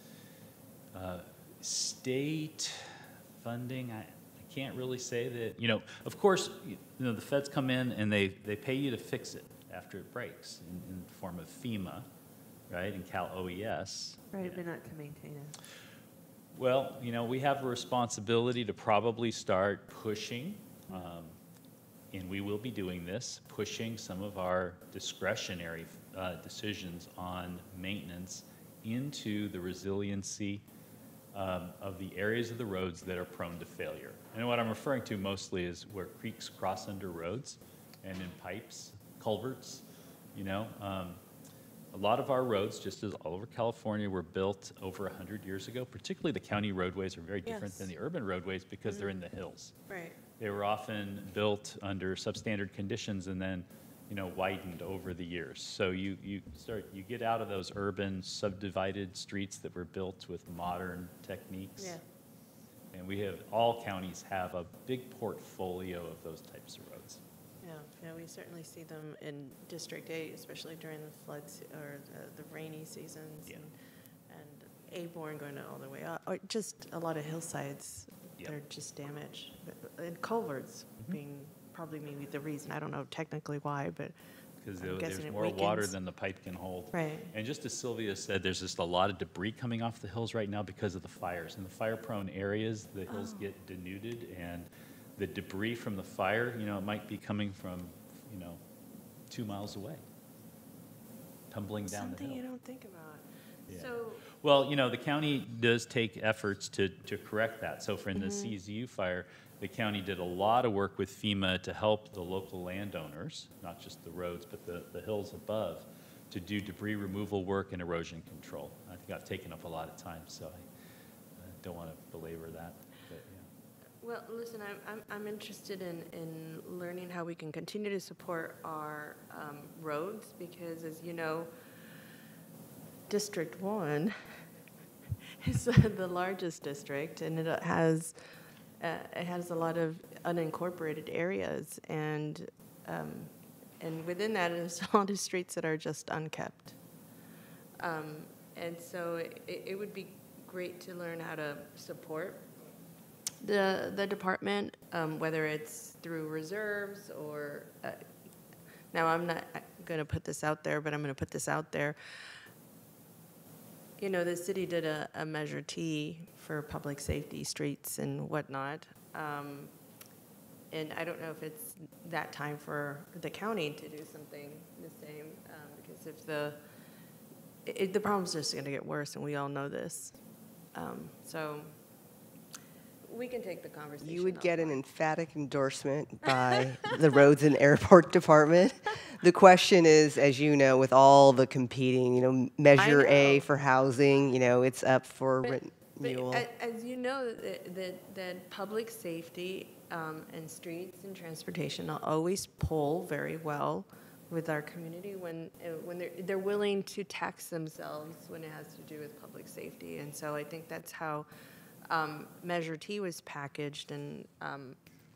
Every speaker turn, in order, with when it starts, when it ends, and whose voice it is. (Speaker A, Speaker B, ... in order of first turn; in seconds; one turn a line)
Speaker A: 0.9-12.1
Speaker A: 12.7-14.6
Speaker B: 14.3-15.6
Speaker A: 16.5-21.3
Speaker A: 22.1-30.6
Speaker A: 31.3-39.8
Speaker A: 40.3-41.2
Speaker A: 41.9-49.7
Speaker B: 47.4-47.9
Speaker B: 48.9-49.2
Speaker B: 49.9-50.2
Speaker A: 50.4-62.0
Speaker A: 62.9-67.2
Speaker B: 67.6-73.7
Speaker B: 74.3-84.1
Speaker A: 84.6-98.6
Speaker B: 84.8-85.9
Speaker B: 86.9-87.3
Speaker B: 93.1-93.4
Speaker A: 99.3-100.0
Speaker A: 101.5-102.4
Speaker B: 101.9-104.2
Speaker A: 103.7-120.7
Speaker B: 108.1-108.6
Speaker A: 121.4-123.5
Speaker B: 124.0-131.5
Speaker B: 133.1-134.1
Speaker B: 135.4-138.2
Speaker B: 138.8-146.8
Speaker B: 147.8-152.5
Speaker B: 153.4-158.0
Speaker B: 158.9-162.0
Speaker B: 164.0-169.7
Speaker B: 170.7-176.6
Speaker B: 177.7-180.2
Speaker B: 180.7-181.7
Speaker B: 183.1-184.8
Speaker C: 184.0-196.4
Speaker B: 192.8-193.5
Speaker B: 195.4-211.3
Speaker B: 211.9-214.8